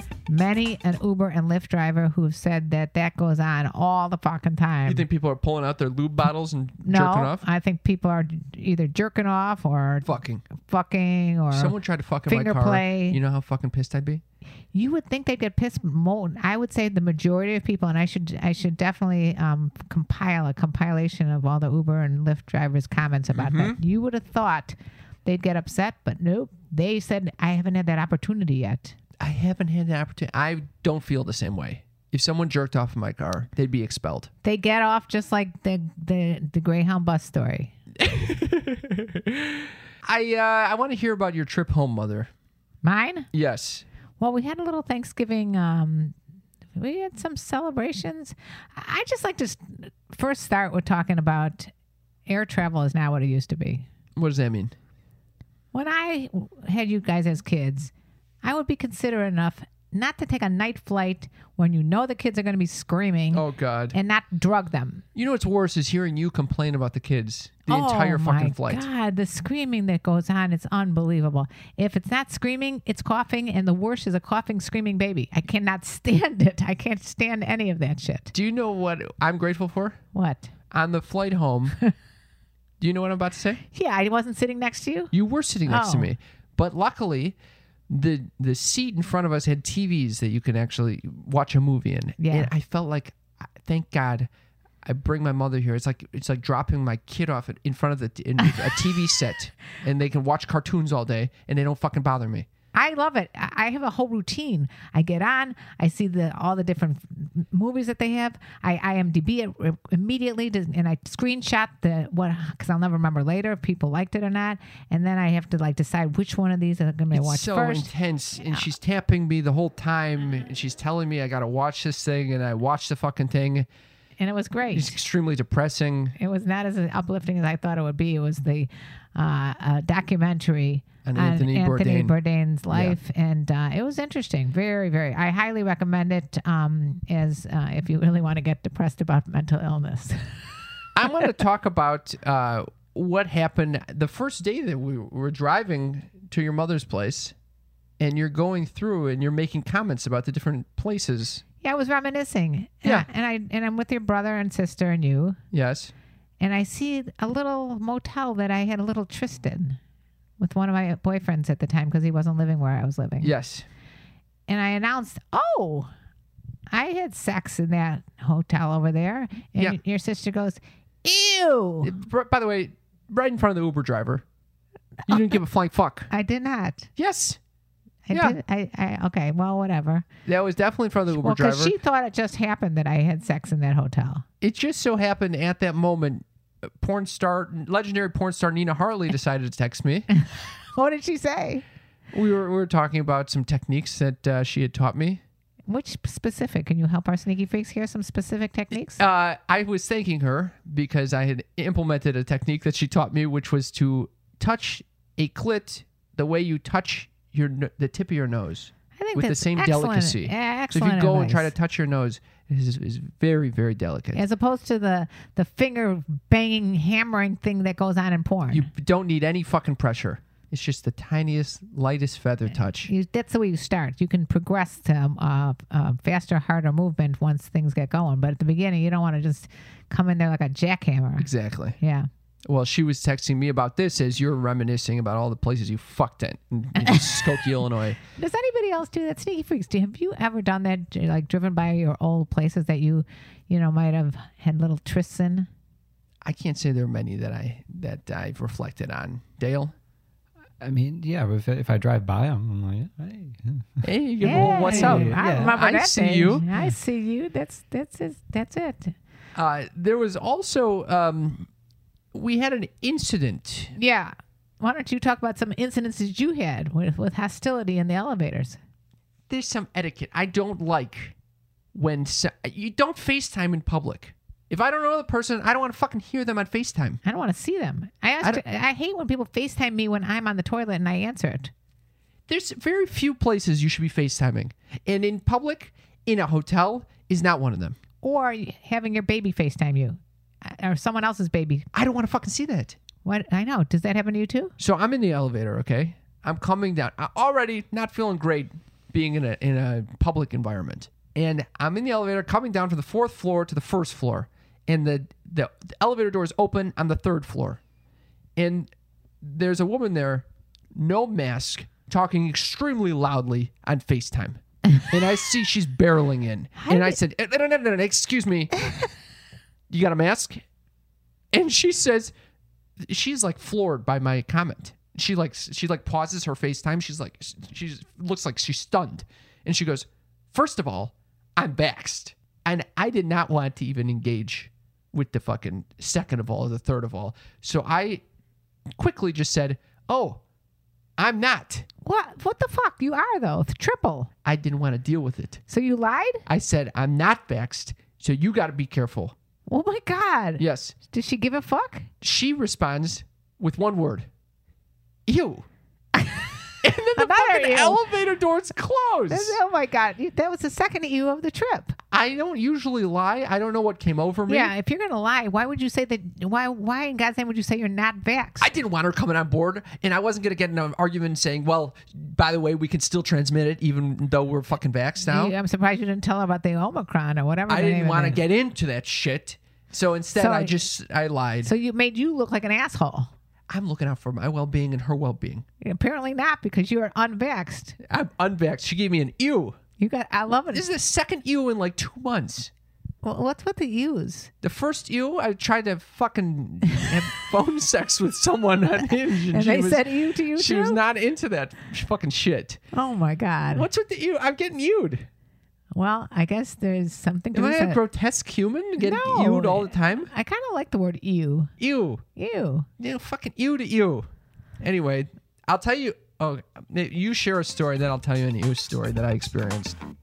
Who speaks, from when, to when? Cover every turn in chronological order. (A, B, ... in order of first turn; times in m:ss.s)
0:00.3-0:05.0 A
0:04.8-0:07.4 B
0:06.8-0:11.7 A
0:10.0-0:10.4 B
0:11.5-0:14.2 B
0:12.3-0:13.2 A
0:14.7-0:29.0 A
0:23.3-0:23.8 B
0:29.2-0:34.3 B
0:34.4-0:37.7 A
0:38.0-0:42.3 B
0:42.8-0:43.3 A
0:43.3-0:43.8 B
0:44.2-0:46.1 A
0:46.8-0:51.7 A
0:52.2-0:53.8 A
0:54.2-0:54.7 B
0:55.7-0:57.9 A
0:58.4-1:05.0 A
1:03.3-1:04.0 B
1:05.1-1:08.9 B
1:07.7-1:18.3 A
1:18.3-1:20.0 B
1:20.1-1:20.5 A
1:20.7-1:21.8 B
1:22.8-1:23.6 B
1:23.7-1:25.1 A
1:25.1-1:27.4 B
1:25.6-1:26.1 A
1:27.9-1:34.3 B
1:32.2-1:32.5 A
1:34.8-1:42.5 B
1:42.7-1:57.9 A
1:57.1-2:03.7 B
2:04.2-2:05.0 A
2:04.7-2:06.1 B
2:06.2-2:20.4 A
2:11.0-2:12.1 B
2:12.7-2:13.0 B
2:20.9-2:27.3 B
2:28.0-2:31.4 B
2:31.6-2:35.4 A
2:35.5-2:35.9 B
2:36.4-2:39.8 A
2:40.4-2:43.3 A
2:43.2-2:43.6 B
2:44.5-2:45.9 A
2:46.7-2:52.0 A
2:51.8-2:54.2 B
2:55.1-2:56.1 B
2:56.1-2:56.9 A
2:57.0-2:57.4 B
2:58.1-3:00.0 A
2:58.1-2:58.4 B
3:00.2-3:01.7 B
3:01.1-3:04.2 A
3:04.4-3:06.2 B
3:06.8-3:10.1 B
3:10.7-3:11.6 A
3:12.1-3:15.2 B
3:15.7-3:19.0 A
3:18.7-3:34.2 B
3:29.0-3:31.5 A
3:34.1-3:38.7 A
3:38.5-3:42.9 B
3:42.8-3:52.1 A
3:51.2-3:51.8 B
3:52.4-3:58.0 B
3:56.8-3:57.2 A
3:58.2-4:05.5 A
4:06.2-4:09.7 B
4:10.6-4:15.5 C
4:13.8-4:16.5 B
4:14.2-4:18.9 A
4:19.3-4:21.5 B
4:22.1-4:23.7 B
4:23.7-4:28.6 A
4:29.3-4:31.1 B
4:31.7-4:37.0 B
4:37.0-4:41.5 A
4:42.3-4:47.8 B
4:48.0-4:51.6 A
4:51.7-4:52.8 B
4:53.0-4:54.5 A
4:54.6-5:07.6 B
5:08.4-5:08.7 B
5:09.2-5:18.5 B
5:16.6-5:17.0 A
5:19.7-5:20.4 B
5:21.3-5:22.1 B
5:22.8-5:38.0 B
5:38.8-5:40.2 B
5:41.0-5:41.7 B
5:41.8-5:44.1 A
5:44.2-5:45.4 B
5:45.5-5:46.2 A
5:46.3-5:49.1 B
5:49.5-5:51.9 A
5:50.4-5:50.7 B
5:52.0-5:54.1 B
5:55.0-5:55.4 B
5:56.0-5:56.3 A
5:56.6-5:59.4 B
5:56.9-5:57.8 A
5:59.1-6:01.8 A
6:01.9-6:04.5 B
6:04.3-6:08.5 A
6:08.4-6:15.3 B
6:15.0-6:18.2 A
6:17.5-6:21.5 B
6:20.1-6:20.6 A
6:21.4-6:23.1 A
6:23.5-6:25.4 B
6:25.6-6:27.8 A
6:27.8-6:29.6 B
6:29.8-6:30.6 A
6:30.5-6:32.5 B
6:33.0-6:34.3 A
6:34.4-6:42.6 B
6:39.2-6:40.8 A
6:42.7-6:43.7 A
6:43.5-6:45.1 B
6:45.7-6:47.8 A
6:47.3-6:50.1 B
6:48.8-6:51.5 A
6:51.6-6:52.0 B
6:52.2-6:52.7 A
6:52.8-6:54.1 B
6:54.6-6:59.8 B